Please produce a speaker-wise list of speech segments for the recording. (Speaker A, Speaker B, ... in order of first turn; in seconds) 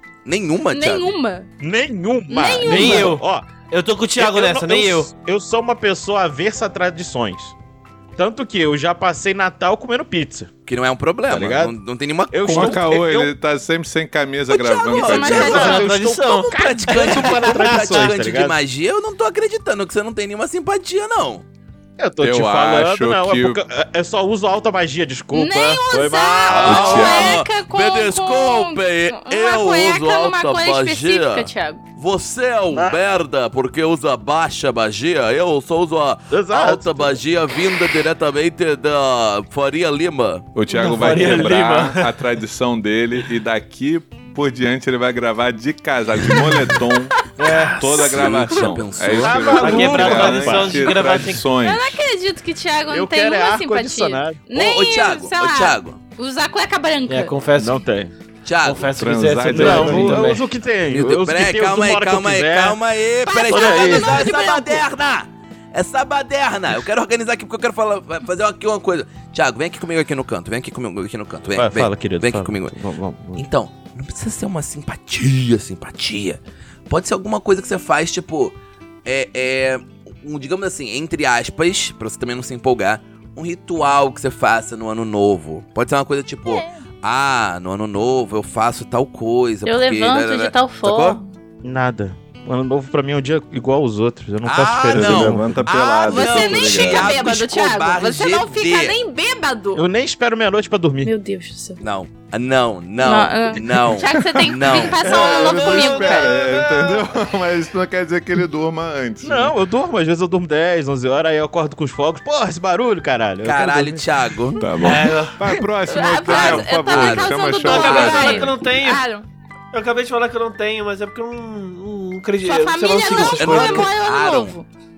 Speaker A: 0.2-1.1, 10.7-12.9, 14.9-21.4, 26.5-40.5, 47.9-49.8, 54.5-56.0, 58.5-58.9, 60.9-72.8, 73.4-91.2, 94.4-99.0, 101.8-105.0, 113.4-114.6, 116.3-117.3, 123.1-124.6
Speaker B: 0.7-1.5, 2.3-3.2, 14.5-15.9, 25.3-31.8, 47.5-47.7, 51.6-57.3, 63.2-64.8, 86.5-86.8, 89.7-91.3, 96.1-99.8, 101.0-101.8, 103.0-106.4, 115.9-119.3, 122.4-124.7
Speaker C: 1.6-3.5, 4.2-7.5, 8.2-10.5, 11.3-11.7, 12.3-13.3, 15.0-18.6, 22.0-27.1, 32.7-33.0, 36.3-37.2, 40.9-41.9, 49.2-51.2, 52.9-54.4, 57.6-58.1, 59.5-62.8, 63.5-64.4, 71.5-73.5, 91.6-95.7, 99.8-101.1, 109.2-114.0
Speaker D: 2.6-5.1, 15.2-18.2, 40.7-42.0, 47.4-48.1, 49.3-51.4, 57.1-57.9, 58.6-60.5, 105.0-107.0, 114.8-115.4, 117.7-119.0, 119.7-123.9
Speaker E: 12.5-15.6, 22.2-23.6, 26.6-27.4, 40.5-47.2, 47.7-52.0, 59.0-60.4, 94.9-97.3, 104.1-109.5, 114.6-118.5